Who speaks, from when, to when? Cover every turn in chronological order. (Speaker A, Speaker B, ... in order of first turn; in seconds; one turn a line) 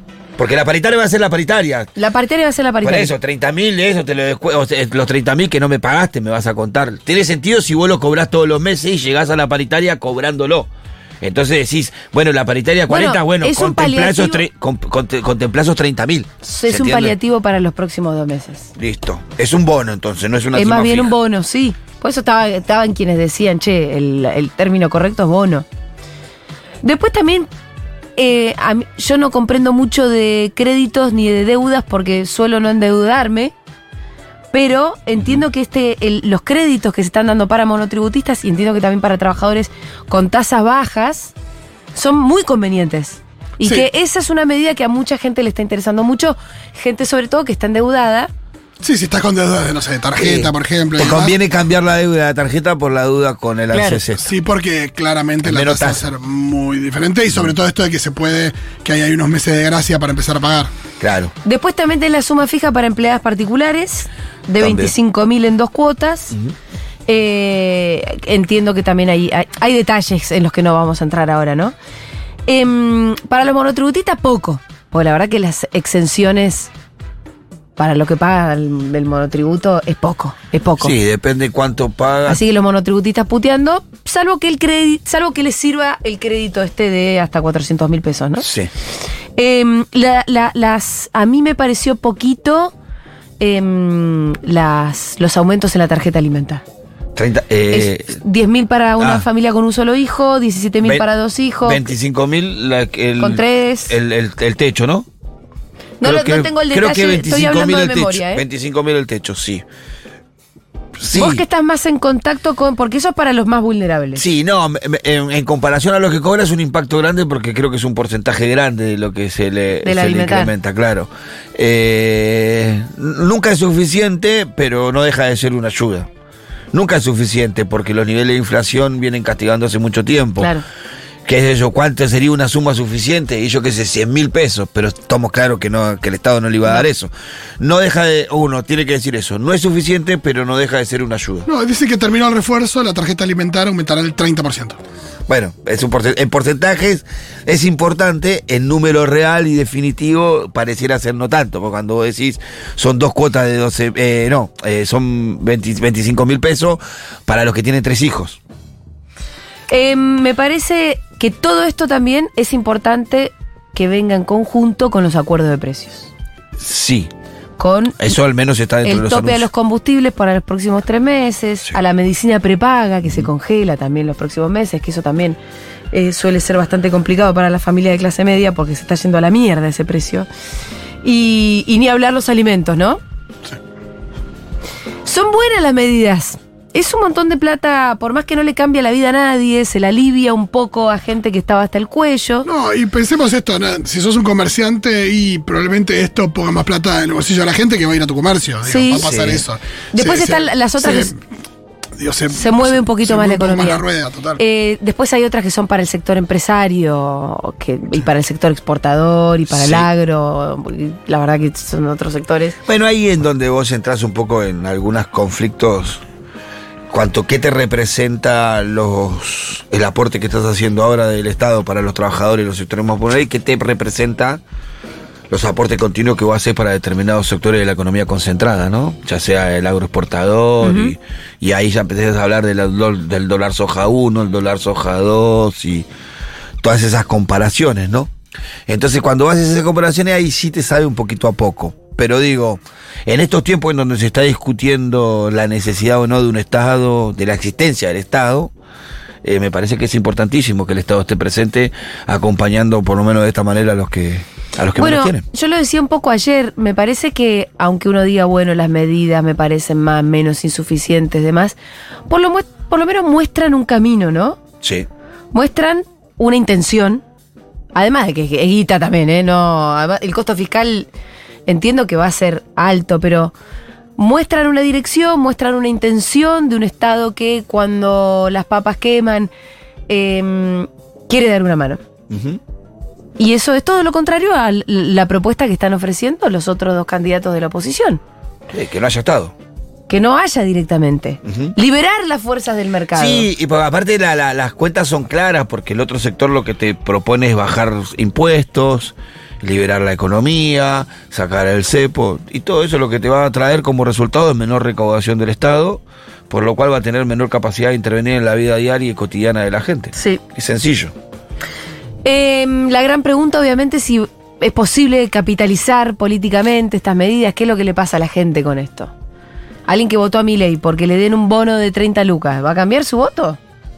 Speaker A: 0.4-1.9
Speaker B: 2.0-3.1
Speaker A: 2.8-10.7
Speaker A: 11.2-17.2
Speaker B: 12.9-14.4
Speaker B: 16.4-18.7
Speaker A: 18.8-21.1
Speaker B: 20.6-25.6
Speaker B: 26.8-27.5
Speaker B: 28.2-33.5
Speaker B: 34.5-41.3
Speaker B: 42.0-48.3
Speaker C: 43.6-43.9
Speaker C: 48.8-51.4
Speaker A: 50.2-54.3
Speaker B: 53.7-54.0
Speaker C: 54.2-60.7
Speaker A: 55.5-56.0
Speaker A: 61.0-61.3
Speaker B: 61.4-66.3
Speaker A: 64.6-64.9
Speaker B: 67.1-71.7
Speaker B: 72.5-76.7
Speaker B: 77.8-80.9
Speaker A: 80.8-82.4
Speaker B: 82.3-88.5
Speaker A: 88.4-88.7
Speaker B: 89.4-92.7
Speaker B: 93.4-96.6
Speaker A: 97.2-98.2
Speaker B: 97.7-101.9
Speaker A: 99.0-99.2
Speaker A: 101.6-105.1
Speaker B: 103.2-103.9
Speaker B: 106.0-108.4
Speaker A: 106.0-109.6
Speaker A: 111.0-111.4
Speaker B: 111.1-114.2
Speaker A: 114.2-126.1
Speaker B: 119.8-120.5
Speaker A: 126.7-130.5
Speaker A: 131.3-141.5
Speaker C: 141.5-144.8
Speaker A: 145.3-158.4
Speaker B: 159.7-166.1
Speaker A: 166.6-167.1
Speaker B: 167.6-168.1
Speaker A: 168.0-169.5
Speaker B: 168.8-175.4
Speaker B: 175.9-180.3
Speaker B: 181.0-183.0
Speaker B: 185.1-192.5
Speaker C: 192.4-201.2
Speaker B: 198.7-199.1
Speaker A: 199.0-199.4
Speaker B: 199.9-201.1
Speaker C: 202.0-204.4
Speaker B: 202.3-203.8
Speaker B: 204.4-212.6
Speaker A: 209.5-209.9
Speaker A: 212.7-216.0
Speaker A: 216.9-224.4
Speaker A: 225.3-235.9
Speaker B: 230.6-230.9
Speaker A: 236.6-238.1
Speaker A: 238.7-248.5
Speaker A: 249.2-255.2
Speaker B: 254.8-261.6
Speaker B: 262.1-264.4
Speaker A: 264.6-264.9
Speaker B: 265.3-267.0
Speaker B: 267.8-270.9
Speaker B: 271.5-273.3
Speaker B: 274.0-279.3
Speaker B: 279.9-281.8
Speaker A: 282.1-282.4
Speaker B: 283.2-288.0
Speaker A: 288.5-289.3
Speaker B: 289.9-293.3
Speaker A: 291.3-291.6
Speaker A: 293.0-310.9
Speaker B: 312.1-318.9
Speaker B: 319.7-323.4